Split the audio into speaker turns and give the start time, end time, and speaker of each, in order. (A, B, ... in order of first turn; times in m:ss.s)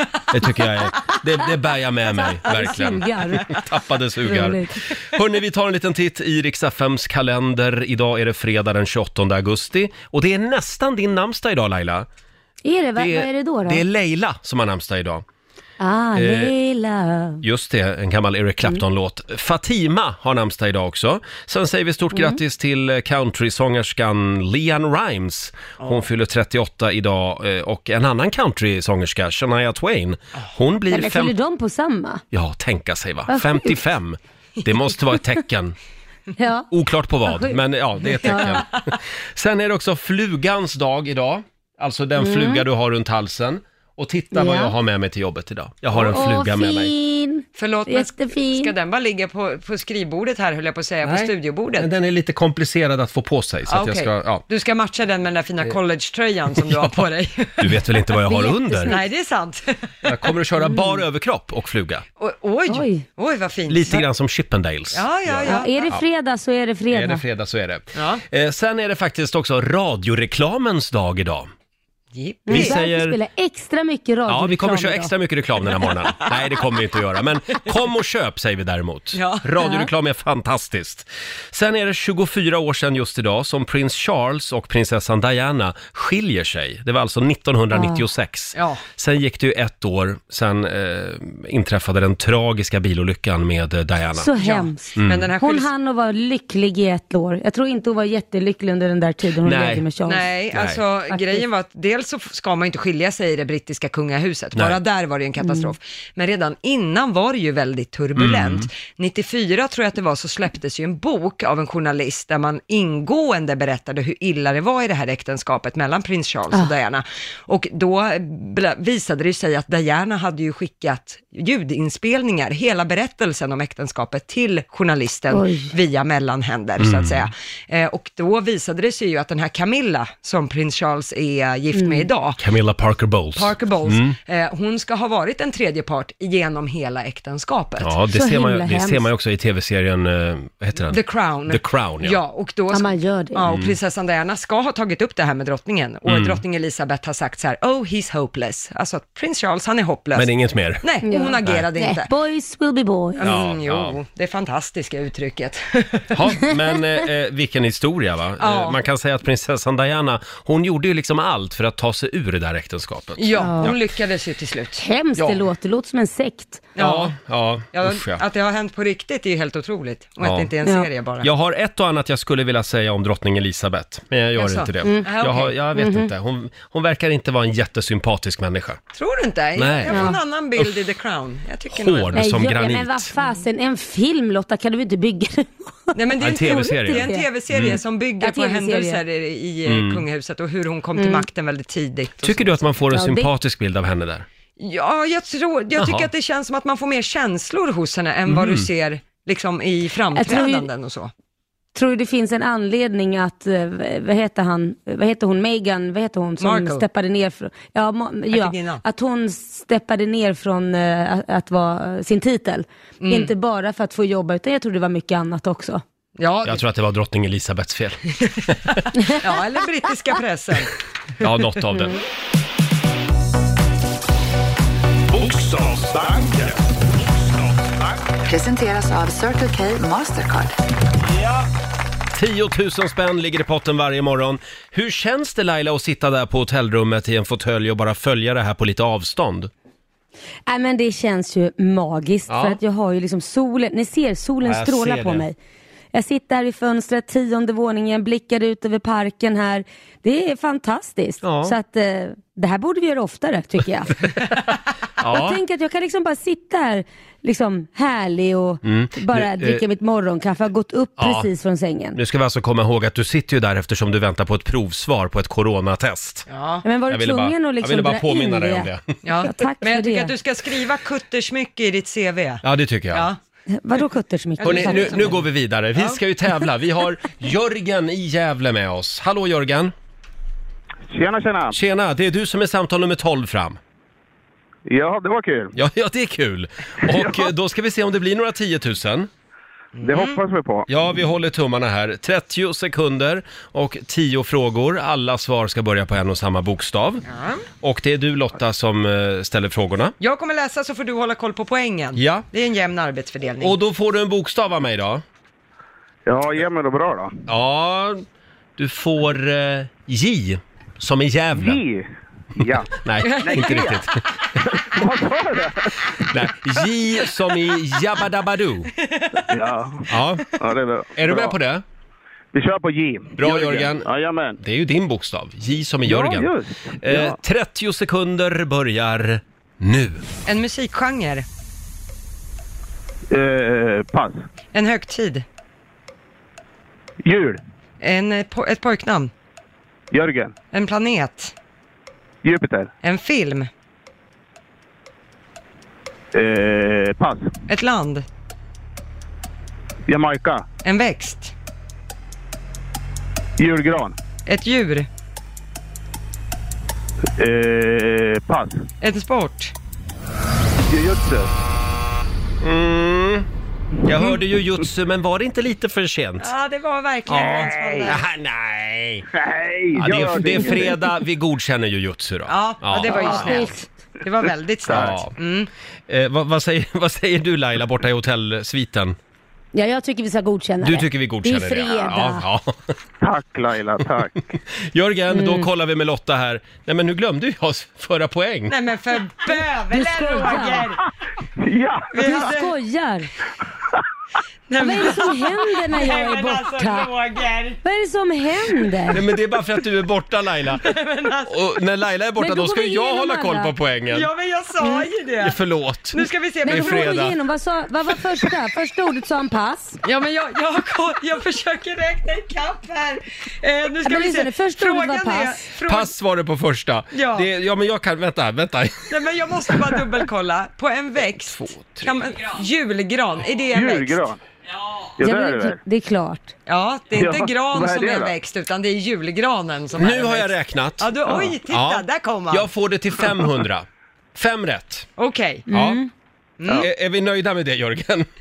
0:00.3-0:12.1 A
0:02.2-0:03.6 B
0:04.2-0:04.8 B
0:12.6-0:13.8 B
0:13.0-0:15.2 A
0:15.8-0:17.4 B
0:16.2-0:16.5 A
0:17.4-0:31.3 A
0:22.1-0:22.4 B
0:30.9-0:32.2 B
0:32.3-0:35.8 A
0:33.3-0:33.8 B
0:36.4-0:36.7 B
0:36.7-0:38.7 A
0:37.3-0:37.6 B
0:38.2-0:38.6 B
0:38.3-0:38.6 C
0:39.4-0:46.9 A
0:42.2-0:42.6 B
0:44.3-0:44.7 B
0:45.9-0:48.7 B
0:47.6-0:51.9 C
0:51.0-0:54.4 A
0:53.7-0:57.8 C
0:57.6-0:59.0 A
0:58.3-0:59.1 B
0:58.9-0:59.9 C
1:00.0-1:02.0 A
1:02.2-1:04.0 C
1:02.7-1:03.0 B
1:03.7-1:06.0 A
1:04.9-1:05.7 C
1:05.5-1:07.2 B
1:06.9-1:11.5 A
1:08.0-1:08.2 C
1:12.1-1:12.8 C
1:12.5-1:15.1 B
1:12.5-1:13.2 A
1:14.3-1:34.3 A
1:19.2-1:19.4 C
1:19.6-1:19.9 B
1:27.7-1:28.0 B
1:28.6-1:28.8 C
1:34.1-1:40.3 B
1:34.4-1:35.7 C
1:35.0-1:35.3 A
1:39.4-1:39.8 A
1:40.0-2:12.4 C
1:40.5-1:40.8 A
1:41.1-1:41.4 B
1:45.4-1:45.7 B
1:48.2-1:48.7 A
2:05.3-2:05.7 B
2:06.8-2:07.3 A
2:11.7-2:12.1 B
2:12.4-2:14.2 A
2:13.4-2:17.9 C
2:17.8-2:22.2 A
2:18.1-2:19.1 B
2:20.9-2:30.3 C
2:22.7-2:23.4 B
2:23.5-2:23.8 A
2:26.1-2:26.4 A
2:30.2-2:30.8 A
2:30.8-2:32.1 C
2:31.0-2:33.3 B
2:33.2-2:36.1 C
2:33.2-2:34.0 A
2:36.1-2:43.8 A
2:38.4-2:38.8 C
2:43.2-2:44.8 C
2:43.4-2:43.7 B
2:44.8-2:46.7 B
2:46.8-2:47.1 C
2:46.8-2:48.2 A
2:47.7-2:51.3 C
2:50.2-2:50.5 A
2:50.6-2:50.9 B
2:51.2-2:58.8 A
2:54.4-2:55.5 C
2:54.8-2:55.1 B
2:55.7-2:56.1 B
2:58.9-3:02.3 C
2:59.6-3:00.7 A
2:59.9-3:00.2 B
3:01.7-3:03.1 A
3:02.1-3:07.3 B
3:06.0-3:12.6 C
3:06.2-3:07.8 A
3:08.2-3:09.0 B
3:09.7-3:10.0 A
3:11.0-3:11.3 B
3:12.2-3:14.3 A
3:12.9-3:13.3 B
3:14.6-3:21.1 C
3:15.8-3:16.1 A
3:18.3-3:18.7 A
3:20.2-3:20.7 B
3:21.7-3:35.8 B
3:26.4-3:26.8 C
3:28.3-3:28.8 C
3:33.0-3:33.3 C
3:36.2-3:36.6 C
3:36.4-3:38.0 A
3:38.2-3:40.7 C
3:41.2-3:42.0 A
3:45.1-3:48.0 D
3:48.3-3:50.6 E
3:52.2-3:59.5 A
4:00.5-4:05.4 B
4:02.3-4:02.6 A
4:04.4-4:05.2 A
4:05.9-4:13.9 B
4:11.2-4:11.6 A
4:15.0-4:15.4 A
4:15.0-4:22.0 B
4:18.6-4:19.6 A
4:21.0-4:21.3 A
4:22.0-4:26.3 A
4:26.3-4:26.6 C
4:26.6-4:28.7 B
4:26.9-4:28.8 A
4:29.0-4:33.2 C
4:29.2-4:30.1 B
4:32.4-4:33.1 A
4:33.5-4:35.1 B
4:34.4-4:35.2 C
4:34.4-4:39.7 A
4:40.9-4:41.6 F
4:41.5-4:43.6 A
4:44.7-4:45.5 F
4:45.6-4:49.1 A
4:46.9-4:47.3 F
4:49.8-4:50.2 C
4:49.8-4:50.7 F
4:50.7-4:57.0 A
4:57.1-4:57.4 C
4:57.6-5:00.0 A
5:00.0-5:03.6 C
5:02.0-5:02.3 A
5:03.4-5:05.0 A
5:06.1-5:07.2 F
5:07.3-5:08.0 A
5:08.6-5:11.6 A
5:11.4-5:13.8 F
5:12.7-5:14.0 A
5:13.0-5:13.8 C
5:14.6-5:16.1 F
5:16.0-5:18.7 A
5:18.9-5:19.2 C
5:19.3-5:21.4 F
5:19.9-5:20.2 A
5:21.0-5:21.6 A
5:22.3-5:24.4 F
5:23.2-5:23.9 A
5:24.4-5:30.0 A
5:25.9-5:27.2 F
5:30.3-5:31.3 C
5:33.1-5:34.2 F
5:34.5-5:35.2 C
5:37.0-5:37.4 F
5:37.8-5:39.1 C
5:39.9-5:40.3 F
5:40.5-5:41.3 C
5:42.2-5:42.7 F
5:42.8-5:43.5 C
5:46.1-5:47.3 F
5:47.5-5:48.1 C
5:49.9-5:50.5 F
5:50.6-5:51.3 C
5:53.4-5:54.0 F
5:54.3-5:54.9 C
5:57.2-5:58.6 F
5:58.8-5:59.5 C
6:00.7-6:01.3 F
6:02.4-6:03.3 A
6:03.8-6:06.3 A
6:06.2-6:08.0 C
6:07.1-6:09.1 A
6:07.1-6:08.0 F
6:09.1-6:10.8 F
6:09.8-6:13.3 A
6:12.3-6:15.5 C
6:12.9-6:13.7 B
6:14.7-6:15.0 F
6:14.7-6:15.1 A
6:15.9-6:19.0 A
6:19.5-6:22.2 B
6:20.6-6:22.6 A
6:23.0-6:24.1 F
6:24.6-6:28.6 A
6:25.1-6:25.5 B
6:28.5-6:30.8 C
6:29.7-6:30.8 B
6:31.4-6:32.2 F
6:31.9-6:32.5 C
6:32.0-6:33.1 B
6:34.5-6:37.6 C
6:34.6-6:36.9 B
6:37.6-6:39.0 B
6:38.9-6:40.7 A
6:40.6-6:41.3 C
6:41.3-6:44.1 A
6:42.2-6:43.5 B
6:43.9-6:45.4 C
6:44.6-6:44.9 B
6:45.2-6:47.1 A
6:45.9-6:46.9 C
6:46.4-6:49.8 B
6:49.8-6:55.9 C
6:53.8-6:55.4 B
6:55.7-6:58.9 A
6:56.9-6:57.3 C
6:58.9-7:04.1 C
7:01.3-7:01.9 A
7:03.5-7:04.2 F
7:05.0-7:05.6 F
7:05.0-7:06.3 B
7:06.5-7:12.5 C
7:07.0-7:08.1 F
7:09.8-7:10.9 A
7:11.5-7:14.9 A
7:15.0-7:15.4 C
7:15.5-7:15.9 B
7:15.5-7:15.8 A
7:16.4-7:16.7 C
7:16.6-7:18.1 A